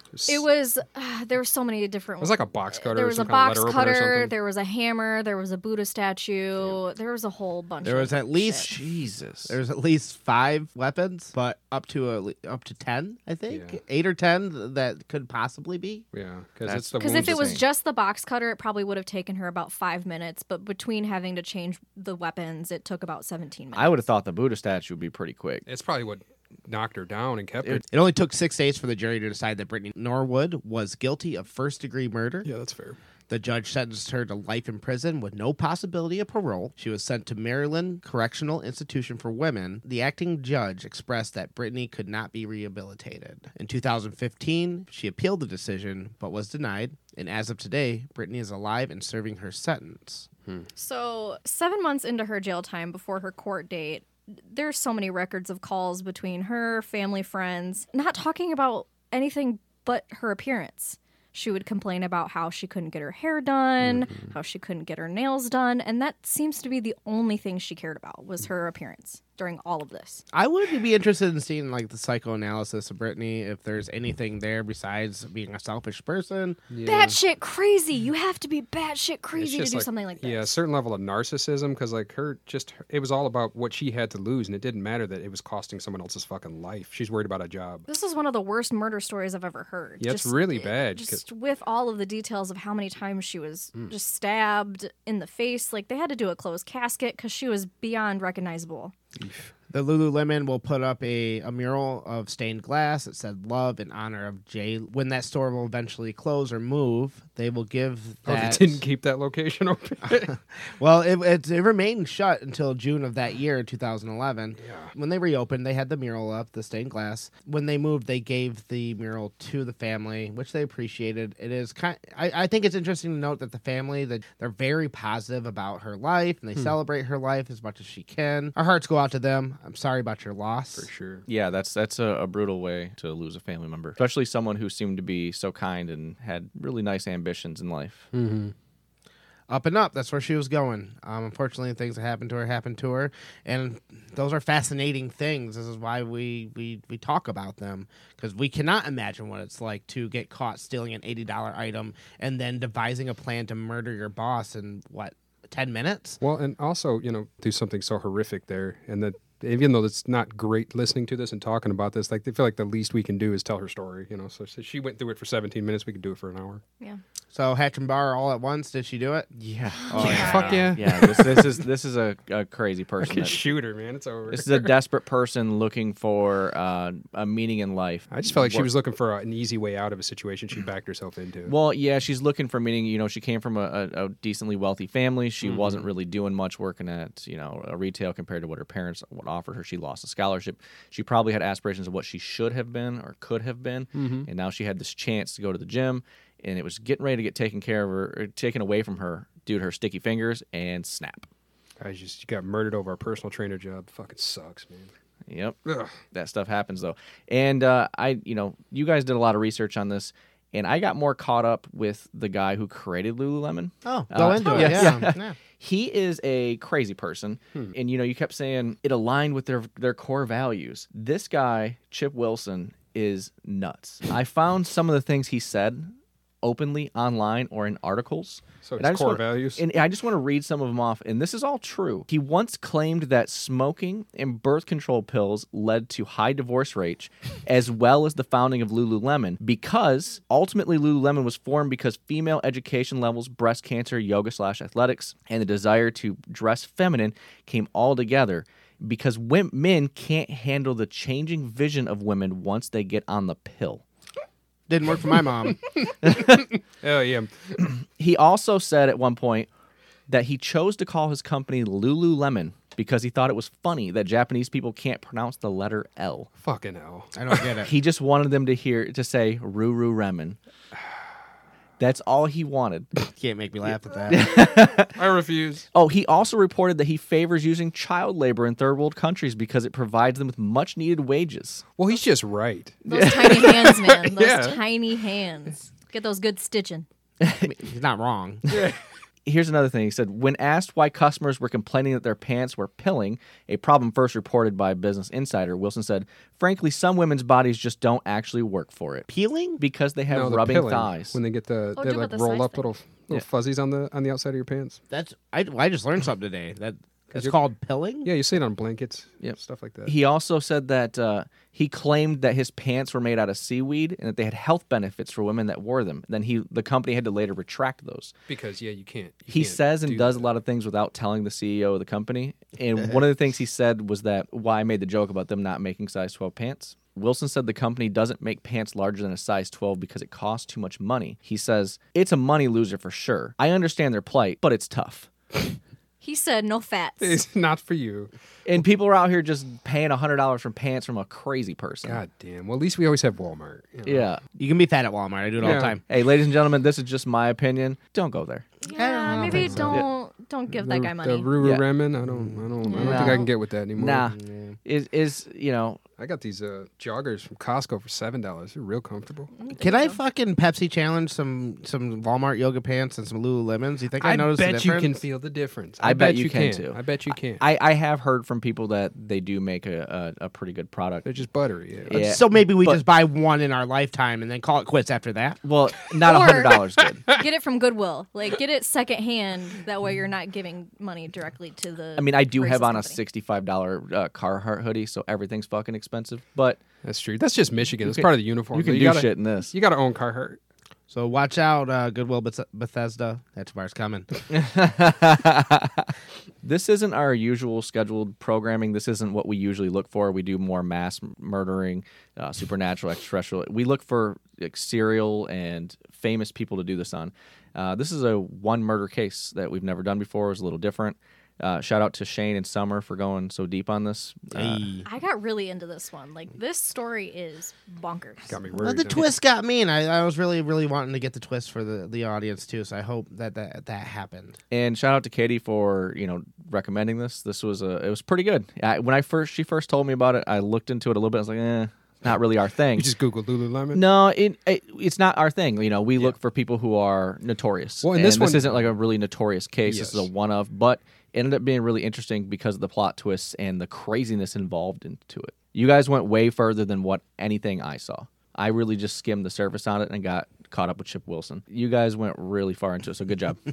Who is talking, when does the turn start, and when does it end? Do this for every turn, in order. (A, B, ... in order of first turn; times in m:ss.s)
0:00.1-0:00.4 A
0:00.3-0:08.7 B
0:02.2-0:04.3 A
0:07.8-0:08.8 C
0:08.6-0:09.6 D
0:09.4-0:16.0 C
0:13.5-0:13.8 A
0:16.1-0:17.4 A
0:16.6-0:17.6 D
0:17.0-0:24.0 B
0:23.7-0:25.6 D
0:25.6-0:27.8 A
0:27.9-0:32.5 C
0:32.4-0:33.0 A
0:33.3-0:50.3 C
0:50.8-1:10.2 B
1:03.8-1:04.2 A
1:10.3-1:16.6 C
1:16.7-1:17.2 A
1:16.8-1:20.5 B
1:19.4-1:27.8 A
1:27.8-1:38.9 B
1:30.0-1:31.2 A
1:39.2-1:39.5 A
1:39.7-1:48.8 C
1:48.2-1:50.3 A
1:50.3-2:10.9 C
1:54.6-1:54.9 A
2:10.8-2:11.2 A
2:11.3-2:18.1 D
2:18.1-2:18.5 A
2:19.5-2:36.2 C
2:36.2-2:46.6 A
2:47.3-2:49.3 C
2:49.3-2:53.5 D
2:49.9-2:50.7 C
2:49.9-2:50.5 B
2:50.0-2:51.6 A
2:53.0-2:54.7 A
2:54.3-2:58.7 D
2:58.1-3:01.5 A
3:01.5-3:21.3 D
3:05.4-3:05.8 A
3:13.9-3:14.3 A
3:21.8-3:24.9 A
3:25.3-3:25.6 D
3:25.6-3:26.0 A
3:26.1-4:13.8 D
3:33.8-3:35.4 C
3:34.4-3:35.0 B
3:48.6-3:49.6 A
4:14.7-4:15.6 C
4:15.8-4:17.6 A
4:16.0-4:16.5 D
4:17.6-4:19.5 D
4:20.1-4:26.3 D
4:26.4-4:27.5 A
4:27.1-4:27.7 C
4:27.6-4:30.4 D
4:31.8-4:32.9 D
4:33.1-4:34.2 C
4:34.1-4:35.0 D
4:34.8-4:35.7 A
4:35.7-4:41.6 D
4:41.8-4:44.6 A
4:42.8-4:46.8 B
4:47.2-4:47.5 D
4:47.4-4:48.5 C
4:48.5-4:48.8 A
4:49.2-4:59.0 D
4:59.1-4:59.6 C
4:59.6-5:01.2 D
5:00.1-5:04.8 A
5:01.8-5:02.7 B
5:04.9-5:08.1 C
5:08.0-5:09.9 A
5:09.2-5:18.1 D
5:18.3-5:20.3 A
5:19.3-5:35.1 D
5:36.0-5:37.2 B
5:37.0-5:38.1 A
5:38.4-5:42.0 D
5:41.8-5:44.0 A
5:43.8-5:44.2 D
5:44.3-5:45.8 C
5:45.4-5:45.7 A
5:45.5-5:48.5 D
5:48.6-5:49.8 C
5:48.7-5:51.3 B
5:49.2-5:49.8 A
5:50.6-5:54.1 A
5:51.4-5:51.6 D
5:52.0-5:52.5 C
5:52.6-5:53.3 B
5:52.8-5:55.8 D
5:54.2-5:54.6 C
5:56.0-5:59.3 A
5:59.4-6:00.0 B
5:59.5-6:05.0 C
6:04.0-6:07.4 A
6:05.8-6:06.8 D
6:07.4-6:11.1 D
6:11.0-6:12.0 A
6:11.8-6:12.8 D
6:11.9-6:15.4 C
6:15.4-6:17.1 D
6:16.0-6:23.0 B
6:22.0-6:26.6 D
6:26.8-6:30.4 A
6:27.8-6:29.5 D
6:30.9-6:34.1 C
6:34.3-6:54.6 D
6:54.3-6:54.8 C
6:54.8-6:58.4 B
6:58.3-6:59.1 A
6:58.5-7:04.4 C
7:04.5-7:12.9 D
7:12.8-7:13.8 A
7:13.7-7:33.4 D
7:17.8-7:18.7 A
7:19.7-7:20.1 A